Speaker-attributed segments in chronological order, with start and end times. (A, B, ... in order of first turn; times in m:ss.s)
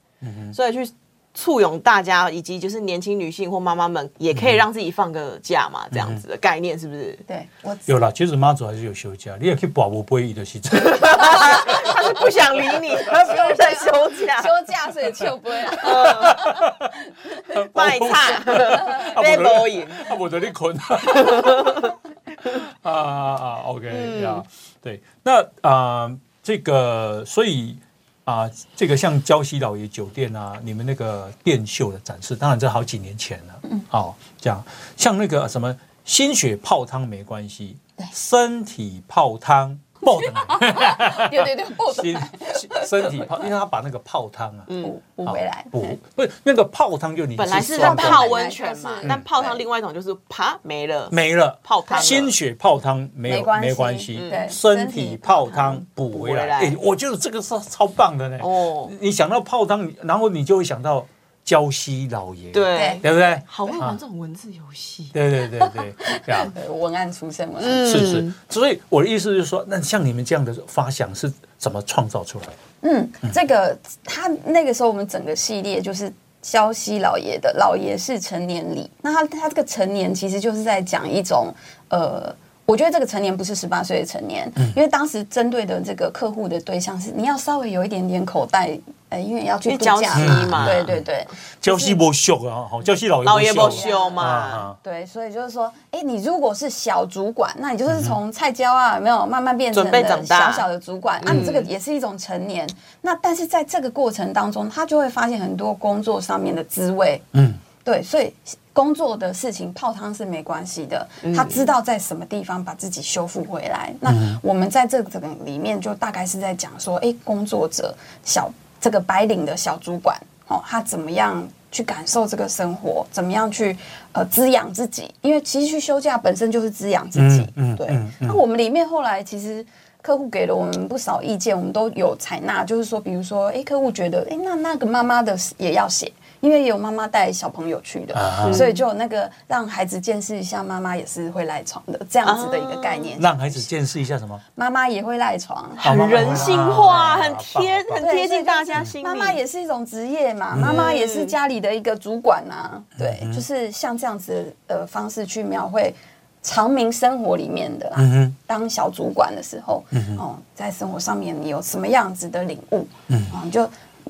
0:00.2-0:00.6 A
0:00.5-0:07.2 B
0:04.3-0:04.6 A
0:05.9-0:06.2 A
0:07.3-0:07.9 C
0:07.9-0:12.1 A
0:10.9-0:14.6 B
0:11.7-0:12.0 C
0:12.9-0:16.7 C
0:15.8-0:16.4 B
0:16.2-0:17.0 A
0:17.3-0:17.6 C
0:17.5-0:21.9 A
0:17.7-0:20.1 B
0:18.5-0:19.1 C
0:21.1-0:21.9 B
0:22.4-0:44.7 A
0:23.9-0:24.4 B
0:40.1-0:43.5 C
0:44.7-0:44.9 B
0:44.8-0:46.0 C
0:45.2-0:48.4 A
0:47.4-0:52.3 B
0:47.7-0:49.6 C
0:51.1-1:04.0 A
0:53.2-0:55.8 C
0:54.1-0:54.4 B
0:56.1-0:56.8 B
0:58.4-0:58.9 B
1:02.5-1:05.1 B
1:02.7-1:03.0 C
1:05.1-1:06.5 A
1:05.6-1:08.2 C
1:07.6-1:08.3 B
1:07.8-1:12.6 A
1:12.8-1:32.0 C
1:29.7-1:30.9 B
1:30.1-1:31.0 A
1:31.6-1:34.8 A
1:33.2-1:34.6 B
1:33.6-1:34.2 C
1:34.8-1:47.3 C
1:37.9-1:38.1 A
1:39.7-1:40.7 B
1:41.2-1:41.7 B
1:47.3-1:47.6 A
1:47.8-2:23.7 C
1:51.2-1:51.6 B
1:54.1-1:54.4 A
2:07.1-2:08.4 A
2:18.1-2:18.7 A
2:18.4-2:18.8 B
2:22.2-2:23.1 B
2:23.2-2:24.4 A
2:24.6-2:26.6 C
2:25.8-2:28.1 A
2:25.8-2:29.4 B
2:28.0-2:43.7 C
2:30.5-2:30.8 A
2:30.6-2:31.3 B
2:33.0-2:33.4 A
2:38.0-2:38.4 A
2:39.9-2:40.2 A
2:43.1-2:43.3 A